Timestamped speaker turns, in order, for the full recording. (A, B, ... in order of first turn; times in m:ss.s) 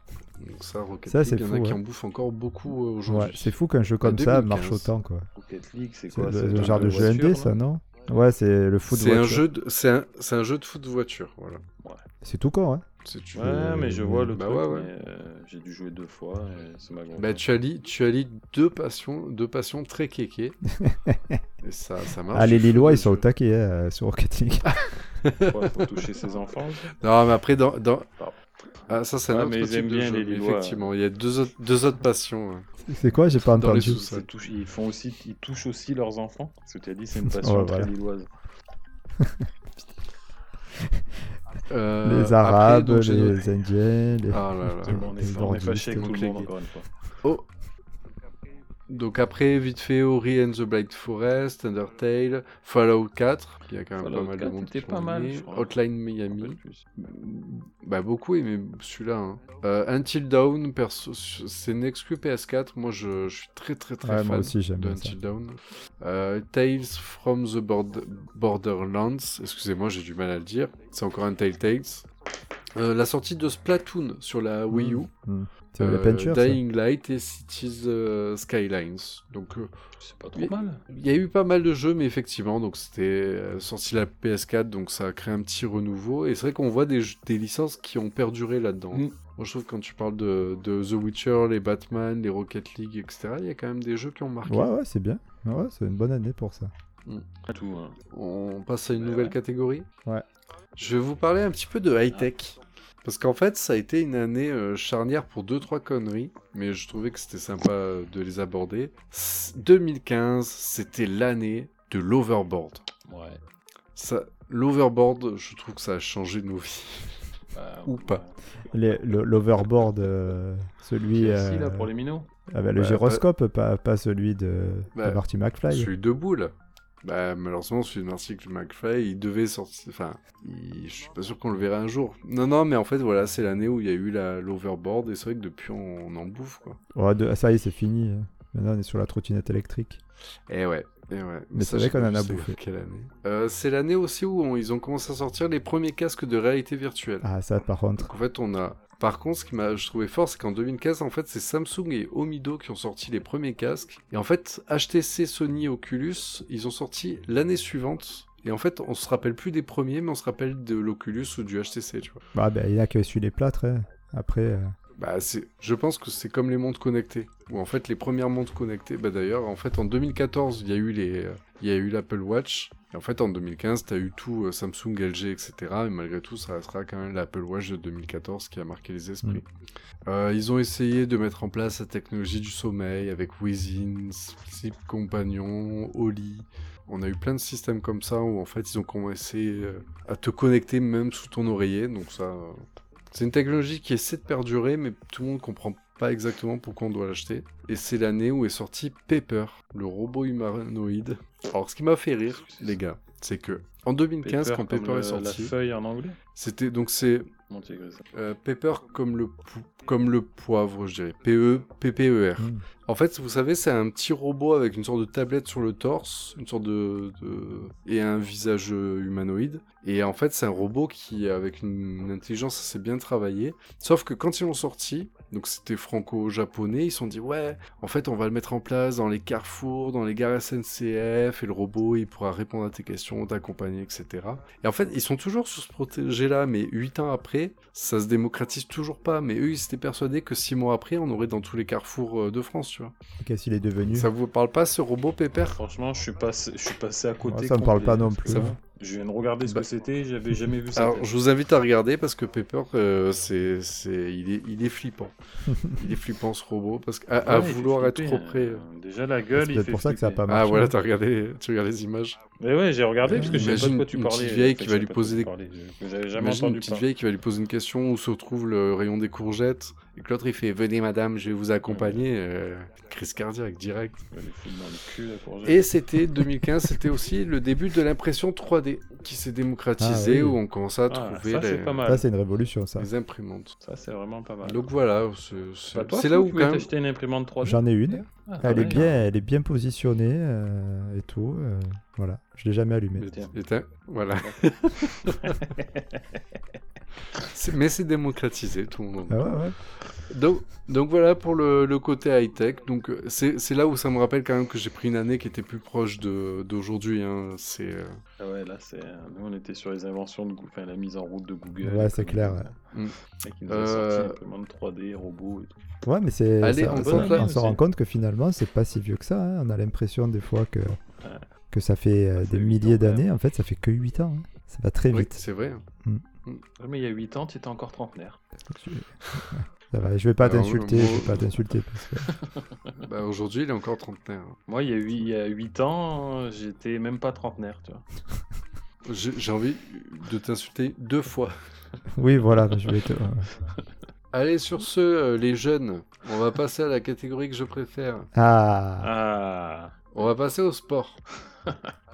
0:00.4-0:04.9 A
0:01.1-0:01.8 B
0:03.1-0:05.3 B
0:05.4-0:07.5 C
0:06.1-0:09.4 B
0:06.5-0:07.1 A
0:08.9-0:11.6 A
0:12.2-0:12.8 B
0:13.0-0:14.9 A
0:13.3-0:17.4 C
0:13.5-0:14.3 B
0:17.2-0:20.6 A
0:20.7-0:21.4 B
0:21.6-0:23.2 A
0:22.3-0:24.8 B
0:24.7-0:26.0 A
0:25.4-0:26.9 C
0:27.0-0:28.1 A
0:28.9-0:32.7 A
0:29.3-0:30.9 C
0:32.8-0:34.0 B
0:33.4-0:34.3 A
0:33.8-0:38.3 C
0:37.3-0:37.9 B
0:39.2-0:39.5 B
0:41.7-0:43.5 A
0:42.0-0:46.1 B
0:44.3-0:45.1 A
0:44.8-0:46.9 C
0:45.9-0:46.5 A
0:48.9-1:12.0 A
0:54.0-0:55.8 C
0:56.3-0:56.8 C
1:04.0-1:05.1 B
1:12.7-1:15.1 A
1:14.7-1:16.6 B
1:15.8-1:19.7 A
1:20.0-1:20.8 C
1:20.4-1:34.7 A
1:34.4-1:36.7 B
1:37.5-1:38.0 C
1:38.1-1:39.9 A
1:39.0-1:39.4 C
1:40.8-1:52.8 A
1:53.0-1:53.4 C
1:54.0-1:57.2 A
1:57.5-1:58.3 C
1:57.8-1:58.2 A
1:58.7-2:01.9 B
2:01.1-2:02.3 C
2:02.5-2:05.9 B
2:02.8-2:03.2 A
2:04.9-2:16.8 A
2:16.9-2:20.0 B
2:20.5-2:27.3 A
2:21.5-2:22.6 B
2:27.2-2:28.1 B
2:28.0-2:42.2 A
2:42.3-2:44.7 B
2:45.0-2:59.4 A
3:00.0-3:25.5 A
3:22.3-3:22.8 C
3:24.2-3:26.2 C
3:26.3-3:27.3 A
3:27.5-3:28.0 C
3:28.1-4:02.9 A
3:32.4-3:32.6 B
4:03.2-4:04.1 B
4:03.9-4:05.6 A
4:05.4-4:11.1 C
4:07.2-4:08.6 B
4:08.3-4:08.5 A
4:10.7-4:15.1 A
4:15.5-4:15.9 B
4:15.7-4:18.6 A
4:17.2-4:20.2 C
4:19.3-4:20.7 B
4:20.3-4:22.2 A
4:22.4-4:26.8 C
4:23.1-4:23.6 B
4:23.1-4:25.3 A
4:26.2-4:34.0 A
4:31.7-4:32.0 C
4:34.1-4:35.7 C
4:35.4-4:41.8 A
4:39.8-4:40.4 B
4:40.9-4:42.0 C
4:41.8-4:42.9 B
4:42.8-4:43.5 A
4:43.6-4:44.7 C
4:44.4-4:46.7 A
4:45.7-4:49.0 C
4:47.4-4:53.1 B
4:53.0-4:55.4 A
4:53.0-4:53.3 C
4:55.0-4:56.4 C
4:57.2-5:08.0 A
4:59.1-4:59.6 B
5:08.2-5:12.5 C
5:11.6-5:12.5 B
5:12.7-5:14.2 A
5:13.2-5:15.5 C
5:15.8-5:20.8 B
5:16.4-5:17.3 A
5:16.7-5:17.6 C
5:21.5-5:25.2 B
5:22.2-5:23.0 C
5:24.9-5:25.6 A
5:26.6-5:28.2 C
5:28.5-5:32.1 B
5:30.2-5:31.3 A
5:32.0-5:32.8 C
5:32.8-5:34.4 A
5:34.5-5:37.8 C
5:38.8-5:41.3 A
5:41.9-5:43.3 B
5:43.4-5:43.9 C
5:44.1-5:48.1 A
5:48.1-5:48.9 B
5:48.8-5:50.1 C
5:49.9-5:51.0 A
5:51.3-5:51.7 C